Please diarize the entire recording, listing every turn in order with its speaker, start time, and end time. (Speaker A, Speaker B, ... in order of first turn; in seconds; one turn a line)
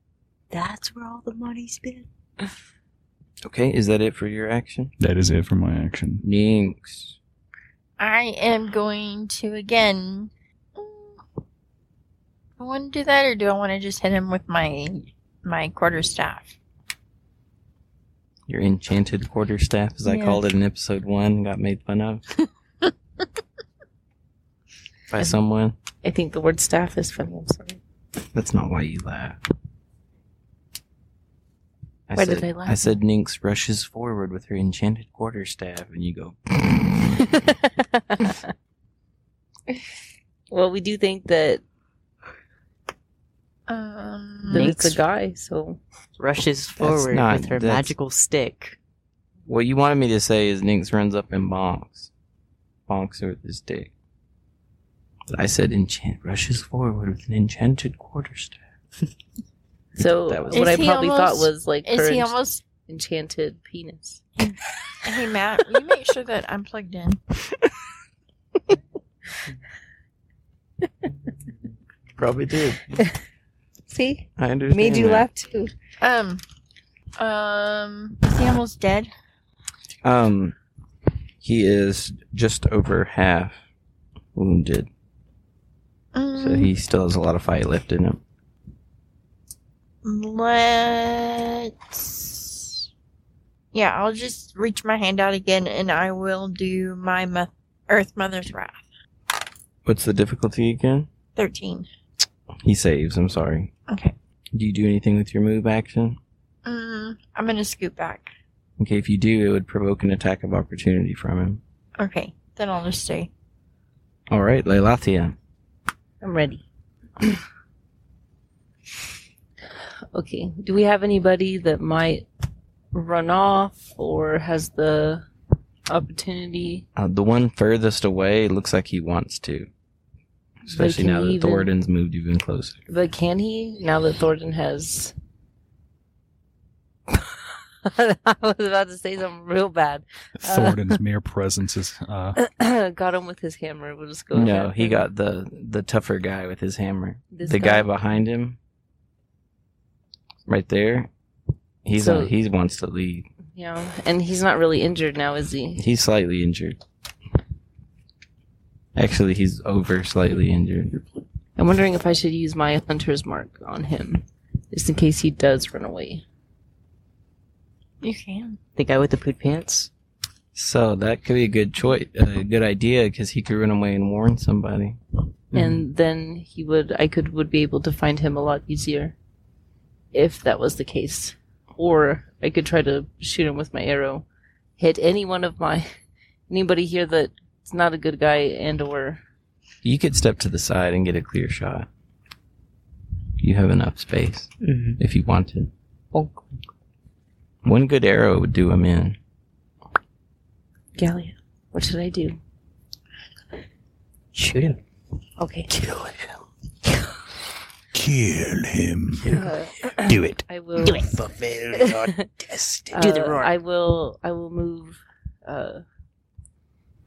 Speaker A: 0.5-2.1
Speaker B: 3.4-4.9
Speaker C: 5.0-6.2
Speaker B: 6.2-7.2
Speaker D: 8.0-11.2
Speaker D: 12.6-16.6
Speaker B: 18.5-22.2
Speaker D: 20.0-20.4
Speaker B: 25.1-25.8
Speaker E: 26.0-27.8
Speaker B: 28.3-29.4
Speaker B: 32.1-37.2
Speaker E: 32.1-32.9
Speaker E: 37.2-38.4
Speaker E: 40.5-41.6
Speaker D: 43.7-44.7
Speaker E: 44.5-45.8
Speaker A: 44.5-45.0
Speaker A: 46.2-48.8
Speaker B: 46.8-47.9
Speaker B: 49.5-52.1
Speaker B: 52.9-53.9
Speaker B: 55.3-58.6
Speaker E: 60.0-64.2
Speaker B: 60.3-61.0
Speaker D: 60.5-62.6
Speaker D: 65.0-67.2
Speaker B: 72.2-73.0
Speaker E: 73.9-75.7
Speaker B: 74.4-75.3
Speaker D: 76.0-76.4
Speaker D: 77.2-79.1
Speaker B: 80.0-80.5
Speaker B: 81.4-83.6
Speaker B: 84.3-84.9
Speaker D: 86.1-86.7
Speaker B: 86.4-88.2
Speaker D: 90.0-92.9
Speaker D: 93.7-98.8
Speaker B: 99.8-101.1
Speaker D: 101.3-101.9
Speaker B: 102.6-103.7
Speaker D: 103.9-104.1
Speaker B: 104.5-106.2
Speaker D: 106.6-108.3
Speaker B: 108.8-111.6
Speaker D: 112.0-113.3
Speaker B: 114.3-115.3
Speaker E: 116.2-116.6
Speaker E: 120.1-122.2
Speaker E: 122.9-125.3
Speaker E: 125.9-126.8
Speaker B: 127.0-129.7
Speaker B: 130.6-132.8
Speaker E: 130.7-131.7
Speaker E: 132.9-135.1
Speaker E: 137.1-141.0
Speaker C: 140.4-142.4
Speaker E: 142.4-145.1
Speaker B: 144.3-148.6
Speaker E: 147.3-147.9
Speaker B: 150.4-151.1
Speaker B: 151.8-153.3
Speaker E: 151.9-152.3
Speaker E: 153.5-155.8
Speaker B: 155.8-156.8
Speaker B: 158.9-161.0
Speaker E: 161.6-166.2
Speaker D: 168.0-168.6
Speaker A: 168.8-169.9
Speaker B: 170.5-175.0
Speaker A: 175.5-175.8
Speaker E: 175.5-179.1
Speaker E: 180.1-184.2
Speaker E: 184.8-185.9
Speaker E: 186.5-189.2
Speaker B: 189.8-191.9
Speaker B: 193.4-195.7
Speaker A: 194.6-195.0
Speaker A: 196.1-196.7
Speaker B: 197.6-199.2
Speaker E: 200.9-202.4
Speaker A: 204.3-204.8
Speaker E: 205.4-205.7
Speaker C: 207.9-209.4
Speaker E: 209.3-211.2
Speaker C: 210.0-210.4
Speaker A: 210.8-211.4
Speaker B: 211.4-211.9
Speaker E: 211.7-212.3
Speaker E: 212.9-215.8
Speaker A: 212.9-213.5